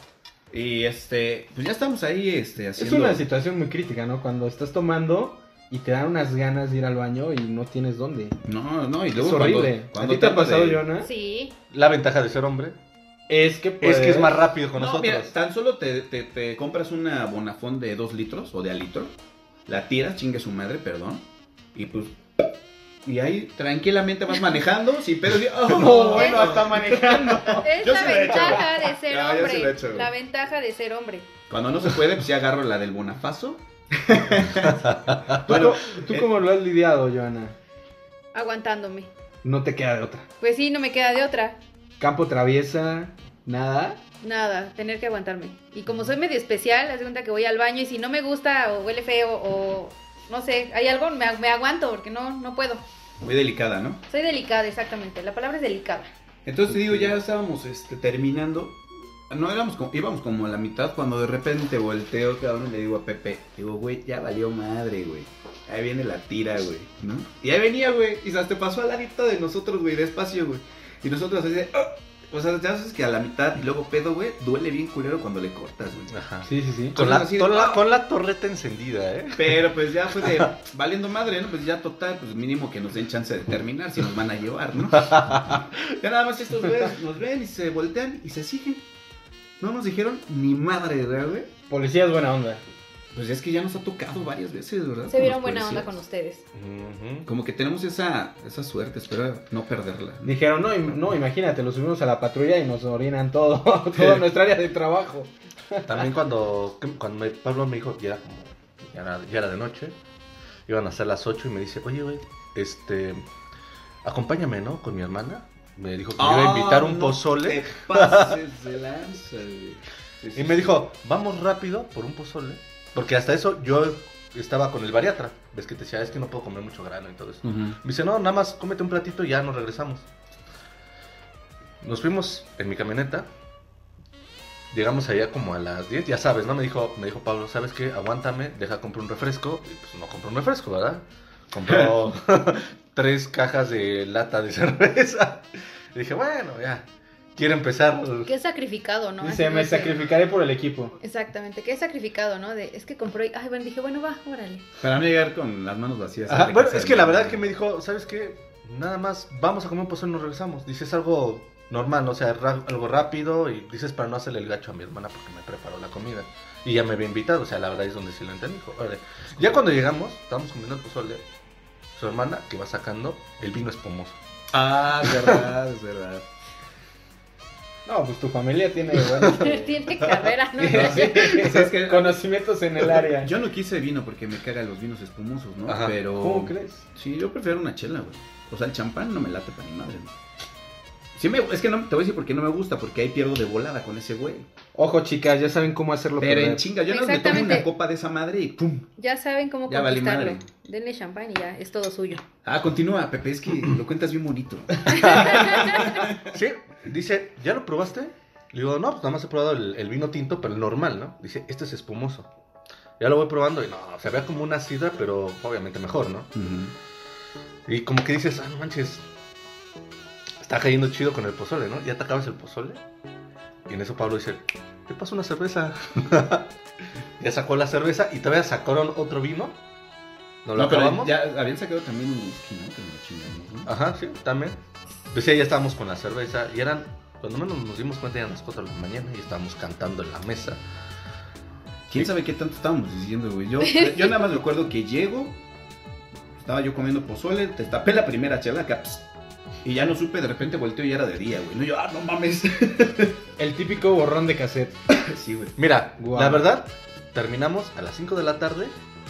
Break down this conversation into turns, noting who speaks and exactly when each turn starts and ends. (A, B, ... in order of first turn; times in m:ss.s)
0:00.5-0:03.2 A
0:02.8-0:08.4 B
0:08.4-0:10.8 A
0:09.1-0:11.1 B
0:11.0-0:11.5 C
0:11.7-0:12.7 D
0:13.3-0:14.4 B
0:13.8-0:15.3 D
0:14.7-0:19.1 A
0:19.6-0:22.2 A
0:23.0-0:30.1 A
0:25.7-0:28.4 B
0:26.0-0:26.6 C
0:27.6-0:31.3 C
0:31.5-0:36.3 A
0:34.7-0:35.4 D
0:35.4-0:37.5 B
0:38.3-0:39.1 C
0:39.4-0:40.3 B
0:40.4-0:41.6 C
0:42.0-0:44.0 B
0:44.2-0:52.8 C
0:53.2-0:54.0 A
0:54.1-0:56.1 C
0:56.4-1:16.1 A
1:16.1-1:20.5 D
1:16.4-1:17.0 B
1:16.9-1:17.8 A
1:19.3-1:28.8 A
1:25.0-1:25.6 D
1:29.6-1:31.5 A
1:31.7-1:32.6 B
1:33.1-1:36.0 A
1:35.1-1:36.4 C
1:36.5-1:37.3 D
1:37.2-1:40.3 A
1:40.2-1:46.0 B
1:44.0-1:44.2 D
1:45.9-1:49.9 D
1:50.7-1:53.2 D
1:54.0-1:58.4 D
1:56.2-2:00.8 A
2:00.3-2:10.0 D
2:07.4-2:07.8 A
2:11.8-2:13.3 D
2:14.7-2:28.3 D
2:28.2-2:30.0 C
2:29.2-2:30.9 B
2:31.0-2:34.6 C
2:34.8-2:37.5 A
2:36.3-2:51.2 D
2:51.9-2:54.2 D
2:54.5-2:56.2 A
2:55.0-2:55.4 D
2:57.8-2:59.8 B
2:59.2-3:01.4 C
3:00.0-3:00.3 D
3:00.6-3:03.3 B
3:00.6-3:02.2 A
3:02.8-3:10.1 A
3:05.7-3:06.0 D
3:06.2-3:06.8 B
3:11.2-3:14.5 A
3:14.7-3:16.7 B
3:16.2-3:18.8 A
3:16.9-3:17.7 C
3:19.0-3:22.2 C
3:19.7-3:20.4 A
3:22.4-3:26.3 A
3:24.9-3:32.3 D
3:24.9-3:26.1 C
3:33.0-3:36.3 D
3:36.3-3:36.7 A
3:37.7-3:39.0 D
3:40.4-3:42.8 D
3:43.7-3:46.5 D
3:47.2-3:49.6 D
3:50.4-3:51.1 D
3:50.5-3:53.7 A
3:53.6-3:54.6 D
3:55.1-4:00.6 D
4:01.9-4:05.4 A
4:03.6-4:04.1 C
4:06.4-4:09.1 A
4:09.6-4:13.2 A
4:13.4-4:14.8 B
4:14.9-4:15.6 A
4:15.6-4:18.7 D
4:16.0-4:16.4 B